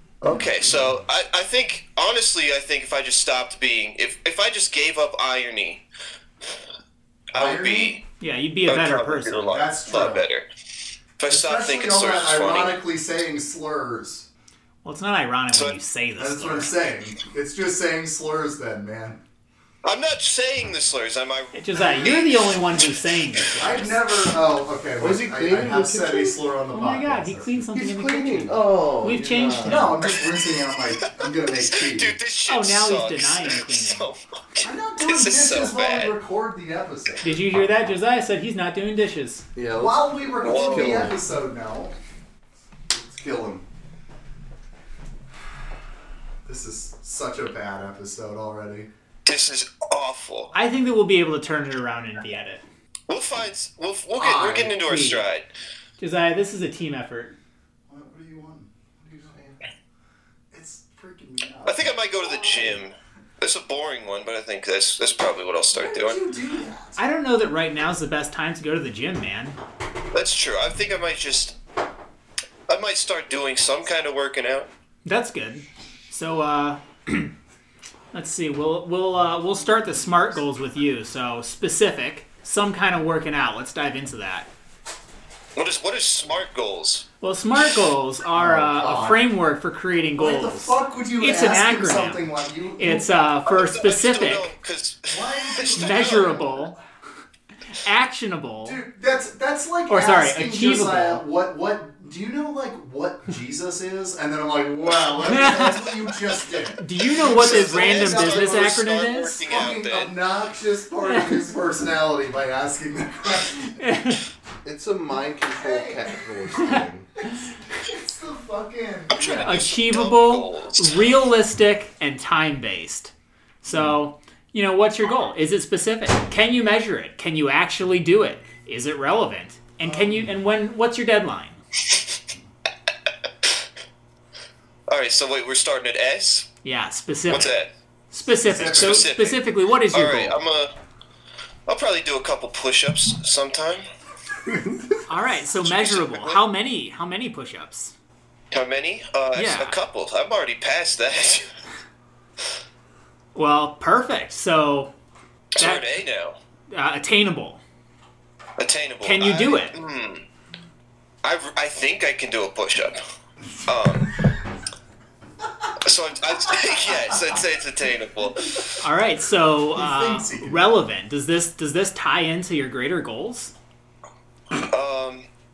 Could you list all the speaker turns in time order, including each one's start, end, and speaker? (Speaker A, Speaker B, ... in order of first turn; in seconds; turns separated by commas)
Speaker A: 0.2-0.9, Speaker B: 0.2-5.8, Speaker B: 7.3-8.0, Speaker A: 7.3-8.0, Speaker C: 8.2-9.6, Speaker B: 8.7-10.4, Speaker A: 9.5-10.2, Speaker B: 11.2-12.8, Speaker A: 11.3-14.3, Speaker C: 14.8-16.8, Speaker A: 16.2-19.2, Speaker B: 19.8-22.5, Speaker C: 21.5-24.0, Speaker A: 23.6-28.4, Speaker D: 25.0-26.4, Speaker C: 26.7-30.0, Speaker D: 27.8-29.9, Speaker A: 29.6-32.1, Speaker B: 31.6-36.1, Speaker C: 32.5-34.1, Speaker A: 34.6-37.4, Speaker C: 37.2-39.4, Speaker D: 39.5-41.2, Speaker A: 39.7-41.9, Speaker B: 40.4-41.0, Speaker A: 42.9-43.6, Speaker A: 46.5-48.9, Speaker B: 49.2-50.5, Speaker C: 50.5-52.6, Speaker B: 53.1-55.5, Speaker A: 54.2-54.8, Speaker C: 54.7-55.2, Speaker C: 56.0-57.3, Speaker A: 57.9-59.5, Speaker D: 59.2-59.5, Speaker A: 60.5-62.8, Speaker B: 61.6-66.2, Speaker A: 65.7-67.0, Speaker C: 67.0-69.6, Speaker B: 70.1-71.5, Speaker B: 72.7-74.7, Speaker C: 75.0-77.3, Speaker C: 78.1-84.5, Speaker B: 85.5-87.0, Speaker C: 87.2-92.2, Speaker A: 88.3-89.2, Speaker A: 90.2-93.1, Speaker C: 92.8-94.5, Speaker B: 93.5-96.3, Speaker A: 95.1-96.7, Speaker C: 95.8-96.8, Speaker C: 97.8-98.8, Speaker A: 98.6-108.8, Speaker C: 99.9-101.2, Speaker C: 105.2-105.9, Speaker C: 106.8-109.4, Speaker B: 107.2-110.1, Speaker A: 109.5-113.8, Speaker C: 113.8-114.2, Speaker D: 114.6-117.1, Speaker A: 115.5-119.6, Speaker B: 119.1-121.0, Speaker C: 119.3-123.1, Speaker C: 123.6-131.6, Speaker A: 123.7-124.0, Speaker A: 129.8-130.3, Speaker B: 134.9-136.5, Speaker C: 136.6-137.5, Speaker B: 137.3-137.7, Speaker C: 138.1-140.4, Speaker A: 138.4-139.1, Speaker B: 138.6-140.7, Speaker B: 141.7-143.8, Speaker C: 145.1-147.9, Speaker B: 145.5-146.4, Speaker B: 148.5-151.5, Speaker C: 149.3-149.8, Speaker C: 153.3-154.9, Speaker B: 155.5-156.3, Speaker C: 155.6-155.8, Speaker C: 156.7-157.6, Speaker B: 158.6-160.2, Speaker C: 159.0-159.7, Speaker B: 161.2-163.0, Speaker B: 163.7-164.1, Speaker B: 165.8-168.7, Speaker A: 166.5-167.2, Speaker C: 168.8-173.5, Speaker A: 169.7-170.7, Speaker B: 174.5-175.2